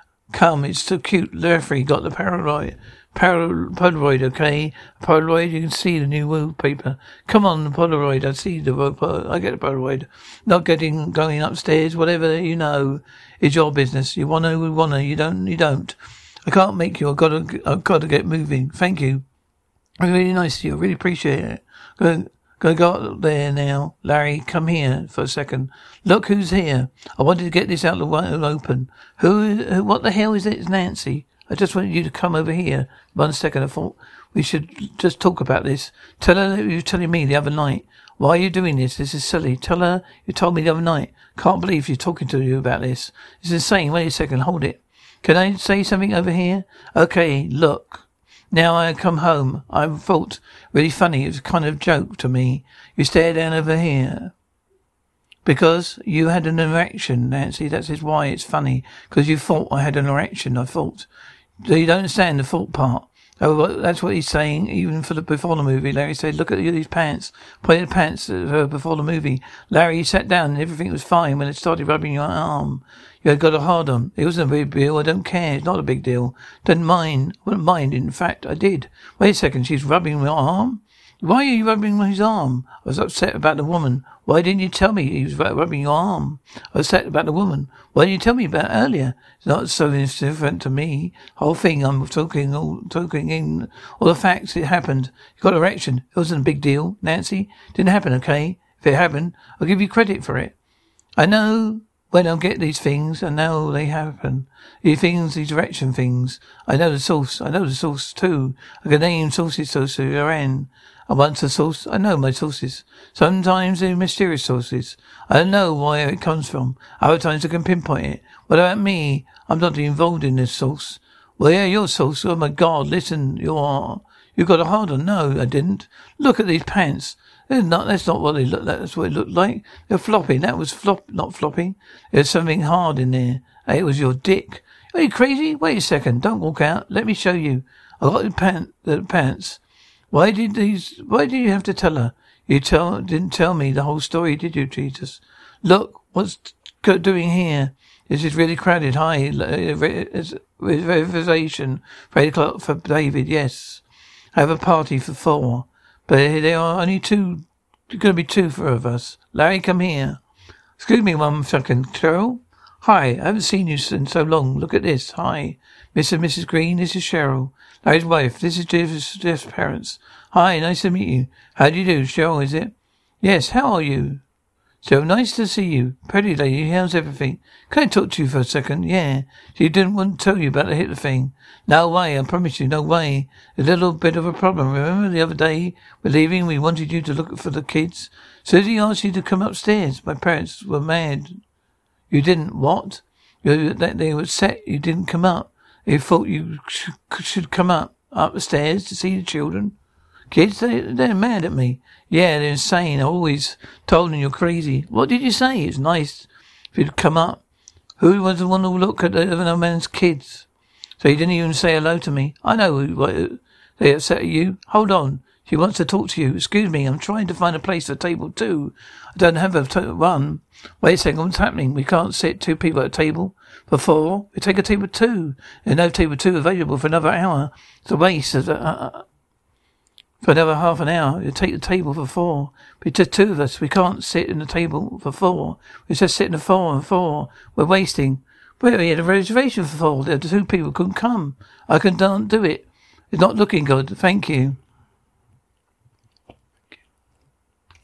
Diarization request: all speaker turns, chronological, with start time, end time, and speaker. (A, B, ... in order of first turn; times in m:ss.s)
0:00.3-0:19.2 A
0:20.0-0:54.3 A
0:55.4-1:01.1 A
1:01.6-1:40.5 A
1:41.2-2:19.6 A
2:20.1-2:33.8 A
2:34.4-2:40.2 A
2:40.8-2:54.2 A
2:54.8-3:11.4 A
3:12.1-3:19.8 A
3:20.3-3:27.4 A
3:28.0-3:30.5 A
3:31.0-3:49.0 A
3:50.2-4:04.6 A